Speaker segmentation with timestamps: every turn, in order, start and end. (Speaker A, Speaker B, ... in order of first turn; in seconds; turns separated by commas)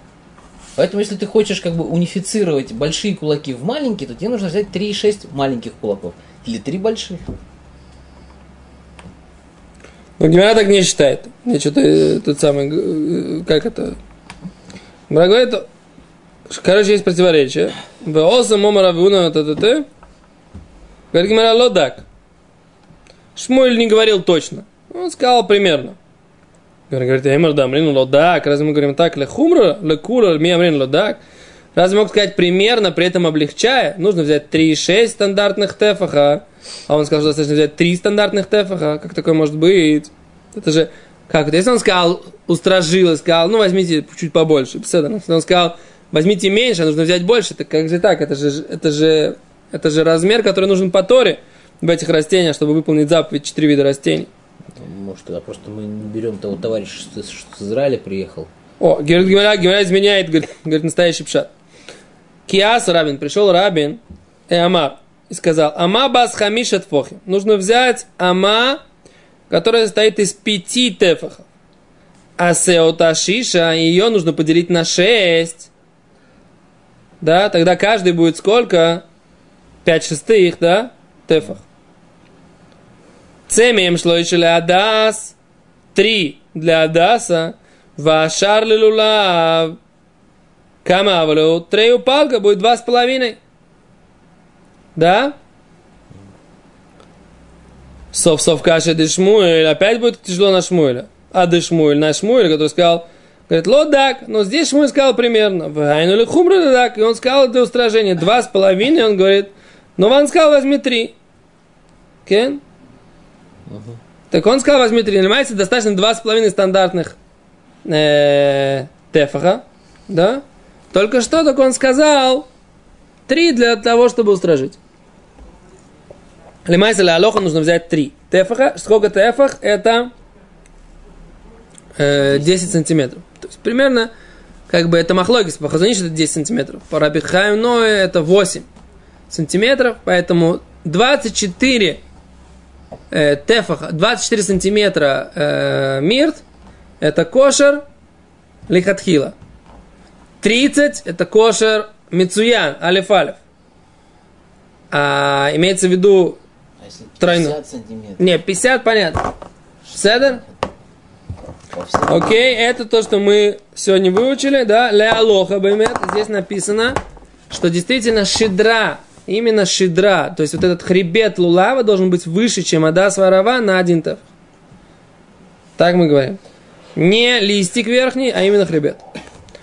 Speaker A: 0.8-7.2, Speaker B: 10.2-14.0, Speaker B: 15.1-15.7, Speaker B: 16.5-19.9, Speaker B: 21.1-22.0, Speaker B: 23.3-26.0, Speaker B: 26.9-31.2, Speaker B: 31.7-54.3, Speaker A: 54.8-58.5, Speaker B: 58.8-61.5, Speaker B: 62.5-68.8, Speaker B: 69.5-71.5, Speaker B: 72.4-75.7, Speaker B: 77.2-79.0, Speaker B: 79.8-81.6, Speaker B: 83.5-85.3, Speaker B: 85.9-89.8, Speaker B: 90.8-93.4, Speaker B: 94.9-95.3, Speaker B: 98.1-111.2, Speaker B: 112.2-112.6, Speaker A: 113.7-114.0, Speaker B: 114.3-117.2, Speaker B: 117.8-122.5, Speaker B: 123.3-124.8, Speaker B: 126.7-130.1, Speaker B: 131.9-134.1, Speaker A: 132.2-132.7, Speaker B: 134.7-138.7, Speaker B: 139.3-142.0, Speaker B: 143.1-146.4, Speaker B: 147.0-147.8, Speaker B: 148.7-149.3, Speaker B: 150.4-153.4, Speaker B: 154.9-156.4, Speaker A: 156.8-158.2, Speaker B: 157.2-157.6, Speaker B: 158.2-159.3, Speaker B: 159.9-160.4, Speaker A: 161.7-162.5, Speaker B: 162.1-167.0, Speaker B: 167.5-174.2, Speaker B: 175.8-176.4, Speaker B: 176.9-179.0